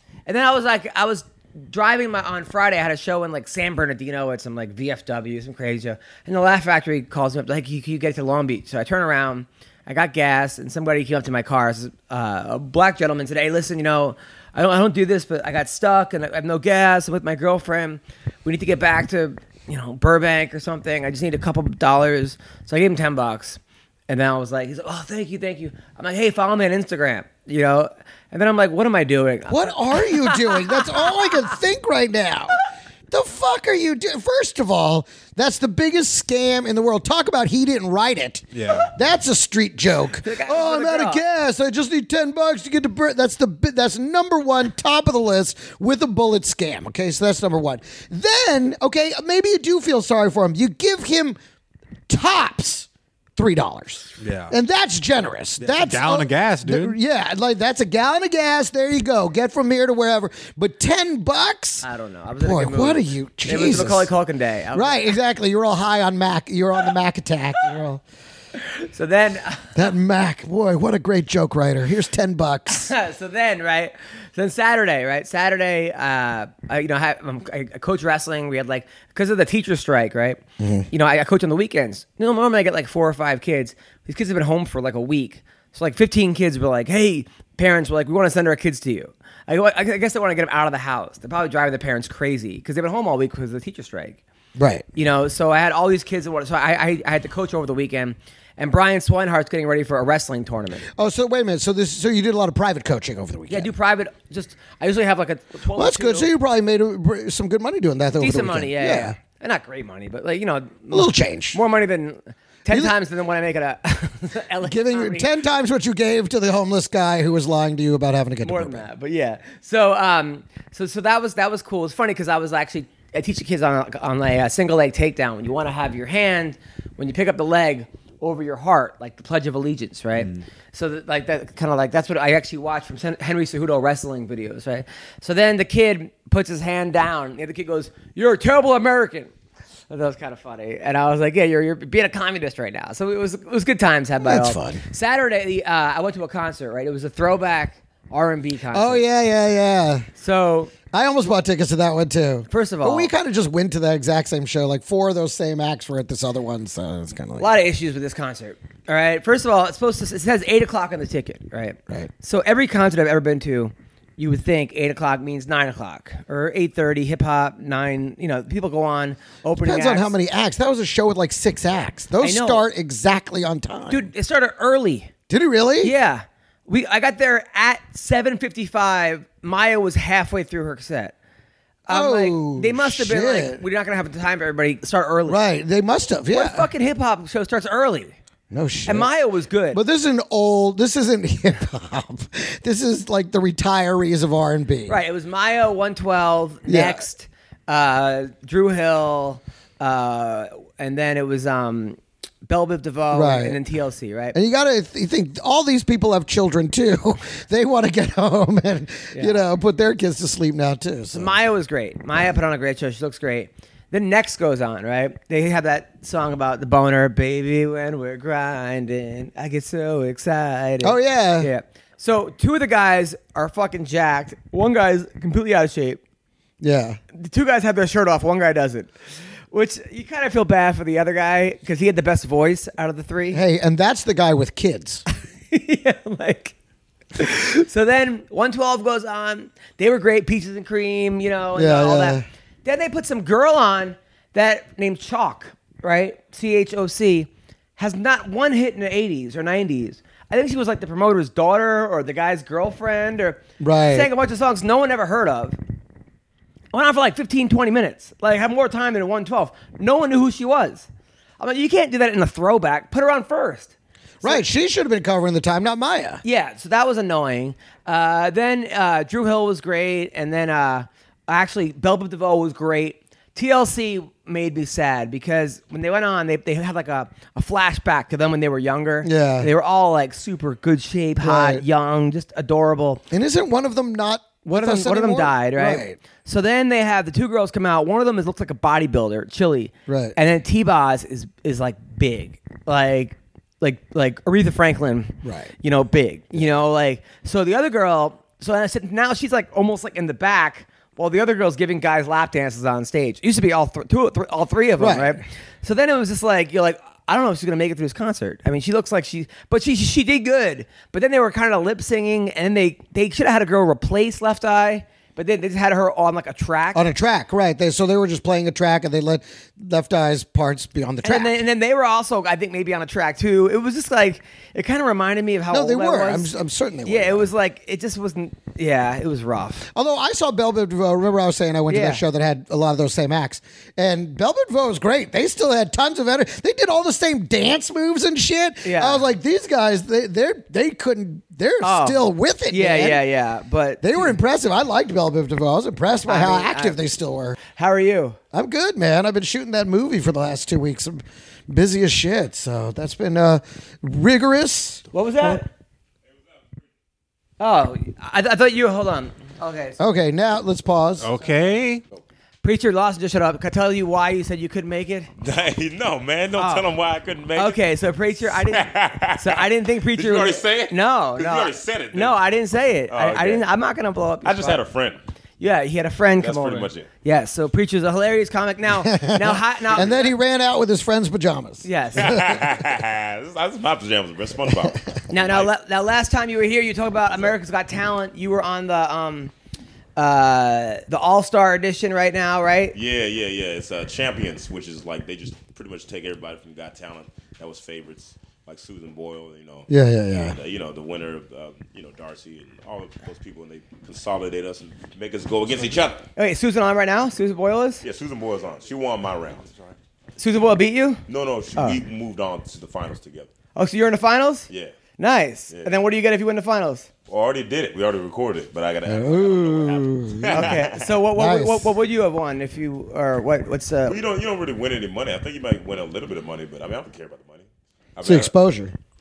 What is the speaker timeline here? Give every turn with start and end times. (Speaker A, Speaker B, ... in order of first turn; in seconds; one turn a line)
Speaker A: 0.2-31.2
Speaker B: 29.5-32.6
Speaker B: 33.1-51.4
Speaker C: 38.5-38.9
Speaker A: 40.2-41.2
Speaker B: 52.1-61.9
Speaker C: 54.2-54.5
Speaker C: 55.6-57.0
Speaker A: 61.8-65.1
Speaker B: 62.4-64.1
Speaker B: 64.7-68.0
Speaker A: 68.6-69.8
Speaker B: 69.8-72.9
Speaker A: 72.8-80.4
Speaker B: 80.6-80.9
Speaker A: 80.9-94.2
Speaker B: 94.5-94.8
Speaker A: 95.0-100.8
Speaker B: 100.9-103.7
Speaker A: 103.5-106.3
Speaker B: 105.7-109.2
Speaker A: 108.2-115.3
Speaker B: 110.9-111.6
Speaker B: 114.6-118.9
Speaker A: 118.4-139.3
Speaker A: 139.9-149.0
Speaker B: 144.2-144.8
Speaker B: 148.7-150.1
Speaker A: 150.2-150.7
Speaker B: 150.9-157.5
Speaker A: 152.5-153.1
Speaker A: 157.4-170.1
Speaker B: 169.6-174.1
Speaker A: 172.2-172.6
Speaker A: 173.9-175.1
Speaker B: 175.3-175.9
Speaker A: 175.8-181.1
Speaker A: 181.8-185.4
Speaker B: 181.9-183.6
Speaker B: 185.3-186.7
Speaker A: 186.3-188.1
Speaker B: 188.5-189.1
Speaker A: 188.8-189.8
Speaker B: 189.7-195.0
Speaker A: 194.9-204.3
Speaker B: 196.7-197.0
Speaker B: 203.1-203.6
Speaker B: 204.3-211.3
Speaker A: 209.1-209.4
Speaker A: 211.1-226.0
Speaker B: 220.8-221.5
Speaker B: 226.6-227.0
Speaker A: 227.1-228.9
Speaker A: 229.5-233.4
Speaker B: 233.3-235.0
Speaker A: 235.5-236.5
Speaker A: 237.1-255.6
Speaker B: 241.5-242.2
Speaker B: 253.6-254.1
Speaker A: 256.7-260.9
Speaker A: 261.4-264.4
Speaker B: 264.2-266.2
Speaker A: 266.2-283.0
Speaker B: 279.0-279.5
Speaker B: 281.2-281.6
Speaker B: 283.1-286.0
Speaker A: 284.4-316.9
Speaker B: 289.9-290.2
Speaker B: 295.2-295.5
Speaker B: 304.8-305.2
Speaker B: 316.7-321.4
Speaker A: 321.0-326.3
Speaker B: 325.5-327.3
Speaker A: 326.8-329.7
Speaker B: 329.7-343.0
Speaker A: 331.7-332.0
Speaker A: 338.6-339.0
Speaker A: 341.6-344.1
Speaker B: 343.8-347.4
Speaker A: 346.1-346.8
Speaker A: 347.5-348.2
Speaker B: 348.3-355.4
Speaker A: 354.9-355.5
Speaker A: 357.4-359.8
Speaker B: 359.8-361.1
Speaker C: 361.0-361.8
Speaker A: 362.4-365.1
Speaker D: 365.2-367.6
Speaker A: 366.4-366.7
Speaker A: 367.4-374.6
Speaker D: 368.4-372.2
Speaker D: 372.9-373.4
Speaker D: 374.2-375.0
Speaker A: 375.4-380.1
Speaker D: 376.2-376.9
Speaker B: 378.8-382.5
Speaker D: 379.7-380.0
Speaker A: 381.6-382.2
Speaker D: 381.9-385.5
Speaker A: 385.1-389.3
Speaker A: 389.9-392.7
Speaker D: 392.7-406.0
Speaker B: 399.7-400.4
Speaker A: 406.1-407.8
Speaker D: 407.8-409.7
Speaker A: 410.2-411.0
Speaker D: 411.1-413.3
Speaker A: 413.5-416.9
Speaker D: 414.5-414.7
Speaker D: 415.5-415.8
Speaker D: 417.1-420.9
Speaker B: 418.9-420.5
Speaker A: 420.3-424.0
Speaker B: 421.1-421.7
Speaker D: 423.9-428.3
Speaker B: 428.0-428.7